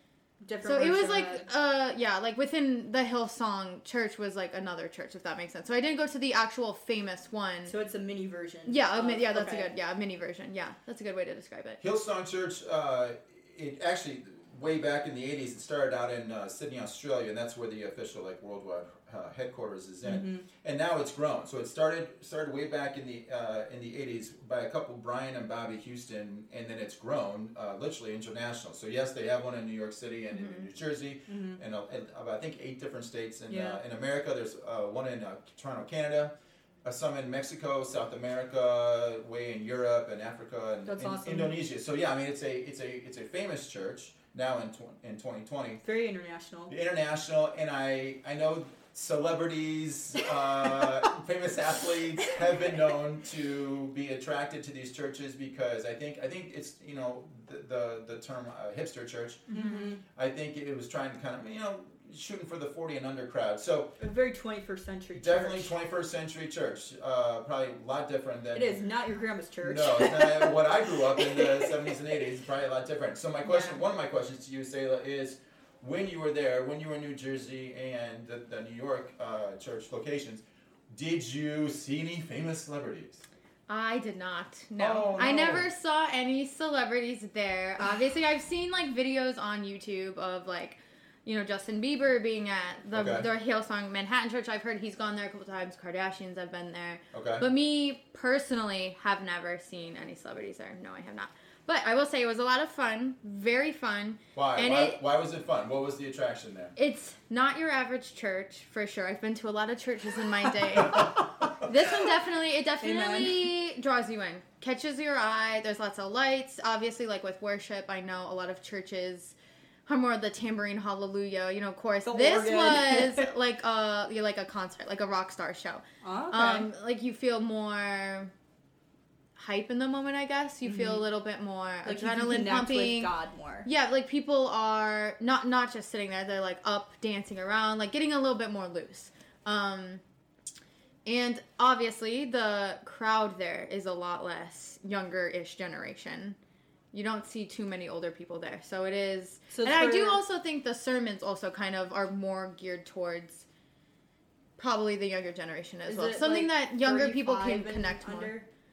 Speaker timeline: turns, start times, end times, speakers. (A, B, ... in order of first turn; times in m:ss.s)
0:00.4-0:01.5 A
0:00.6-0:07.7 B
0:07.6-0:09.7 A
0:08.6-0:11.8 B
0:11.8-0:36.3 C
0:20.0-0:20.4 A
0:30.3-0:30.7 B
0:31.3-0:31.6 A
0:33.5-0:33.8 A
0:36.8-0:45.8 C
0:40.8-0:41.6 A
0:45.8-0:46.7 A
0:46.7-0:59.5 C
0:50.6-0:51.0 A
0:59.5-1:00.0 A
0:59.5-0:59.9 B
1:00.1-1:04.0 C
1:04.0-1:05.7 A
1:05.1-1:08.8 C
1:08.5-1:11.9 A
1:09.6-1:23.2 C
1:13.4-1:13.8 B
1:23.7-1:45.0 B
1:24.8-1:25.7 C
1:32.9-1:33.3 C
1:37.1-1:37.4 C
1:44.3-1:46.7 C
1:46.8-2:08.3 B
1:52.8-1:53.5 A
2:02.0-2:03.3 A
2:06.0-2:06.7 A
2:09.4-2:13.1 B
2:10.6-2:11.0 A
2:11.8-2:13.7 A
2:13.6-2:20.0 B
2:21.0-2:26.4 B
2:26.9-2:33.5 B
2:29.5-2:30.2 A
2:34.6-2:38.3 B
2:35.9-2:38.5 A